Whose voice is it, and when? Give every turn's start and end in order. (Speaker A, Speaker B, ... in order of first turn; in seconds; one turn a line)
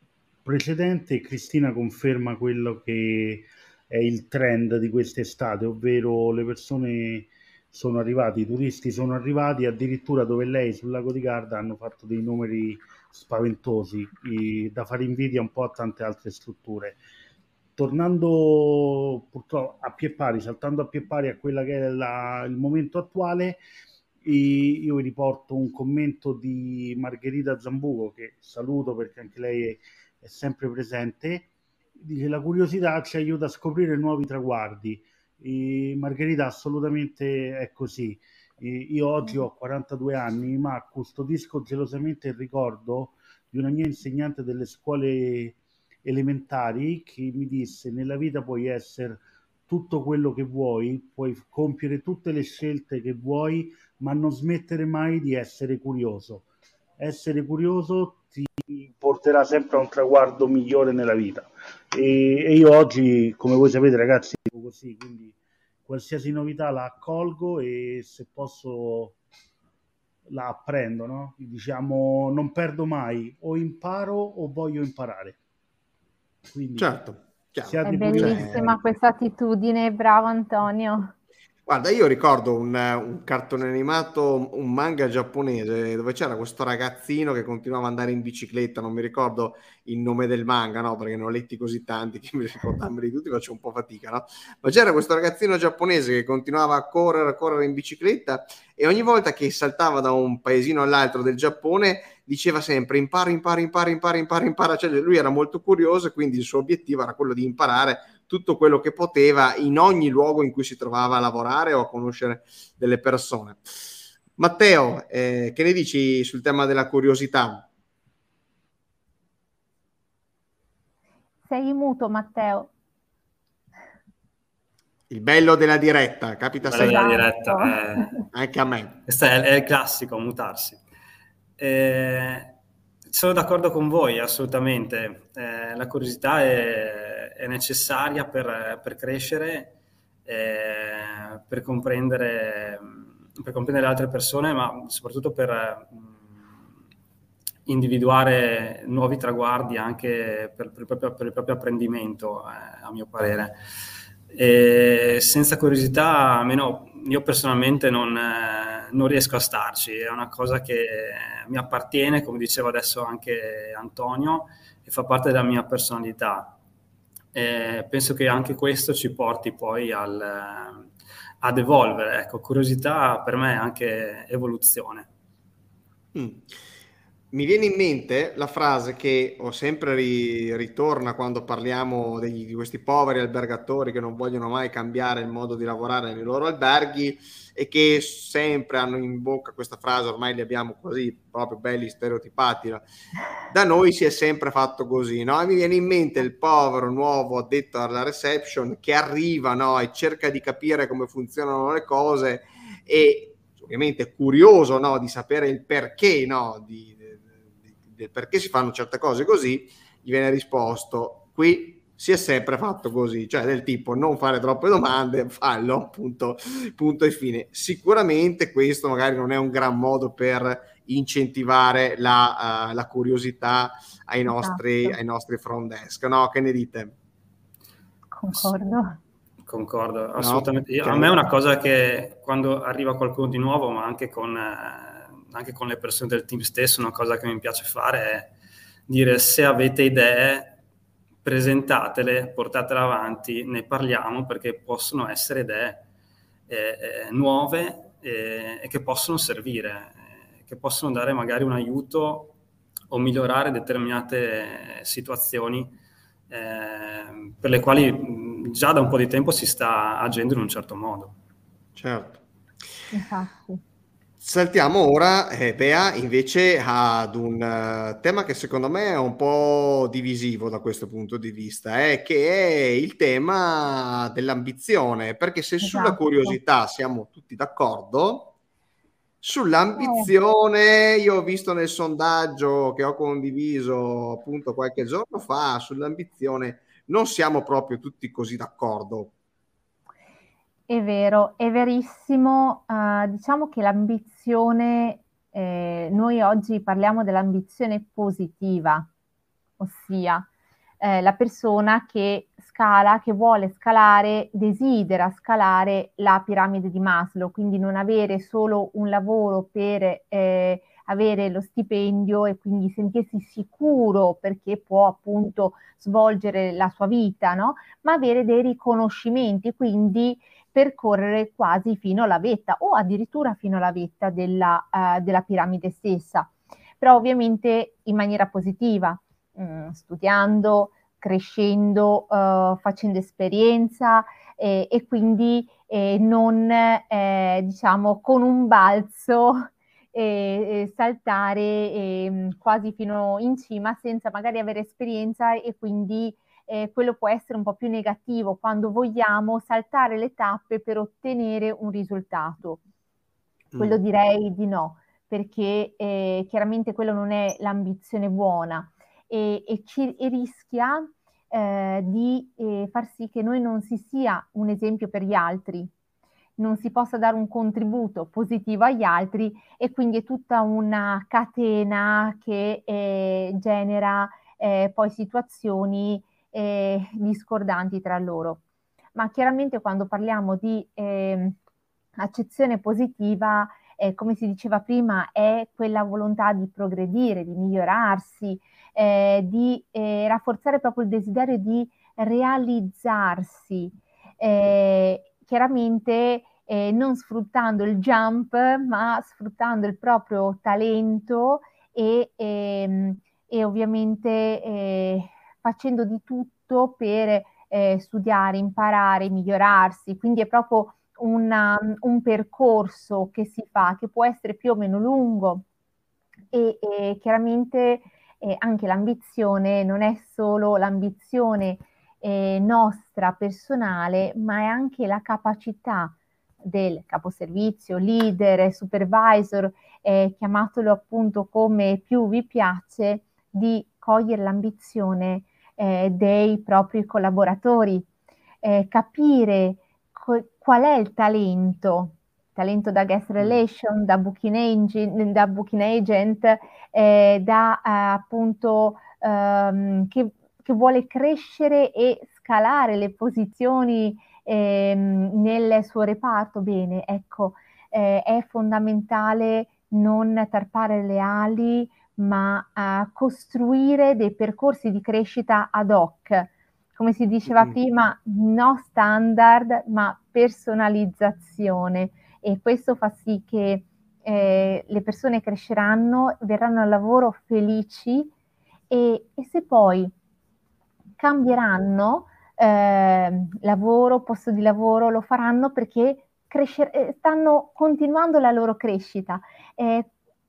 Speaker A: 0.5-17.0
Speaker A: 17.8-23.6
Speaker A: 24.2-56.5
Speaker A: 57.0-69.2
Speaker A: 70.3-75.4
Speaker A: 76.5-76.9
Speaker B: 76.8-78.7
Speaker A: 77.7-78.8
Speaker C: 77.8-81.1
Speaker B: 81.7-113.8
Speaker B: 114.4-117.7
Speaker C: 121.5-122.7
Speaker B: 125.1-127.1
Speaker D: 126.7-128.2
Speaker C: 126.7-127.8
Speaker B: 128.3-129.0
Speaker D: 129.1-130.8
Speaker D: 131.6-132.5
Speaker D: 133.1-139.7
Speaker D: 140.3-146.5
Speaker D: 147.7-153.6
Speaker D: 154.3-166.6
Speaker D: 167.3-170.9
Speaker D: 171.4-175.1
Speaker B: 176.1-176.5
Speaker B: 177.3-192.8
Speaker B: 193.5-226.9
Speaker C: 224.3-225.0
Speaker C: 228.1-229.0
Speaker D: 229.5-238.3
Speaker B: 230.2-231.2
Speaker D: 238.9-240.6
Speaker D: 241.2-245.8
Speaker D: 246.5-252.3
Speaker D: 252.9-255.7
Speaker D: 256.3-261.1
Speaker B: 261.8-262.2
Speaker C: 262.9-263.6
Speaker B: 264.2-278.3
Speaker C: 275.6-276.4
Speaker B: 279.2-289.1
Speaker C: 279.8-280.1
Speaker C: 290.7-298.9
Speaker C: 299.6-300.3
Speaker C: 300.8-352.6
Speaker B: 353.5-353.8
Speaker C: 353.6-365.7
Speaker C: 366.4-378.4
Speaker C: 378.9-381.4
Speaker C: 382.0-415.4
Speaker C: 416.3-437.9
Speaker C: 438.4-478.1
Speaker C: 478.7-479.9
Speaker C: 481.0-489.9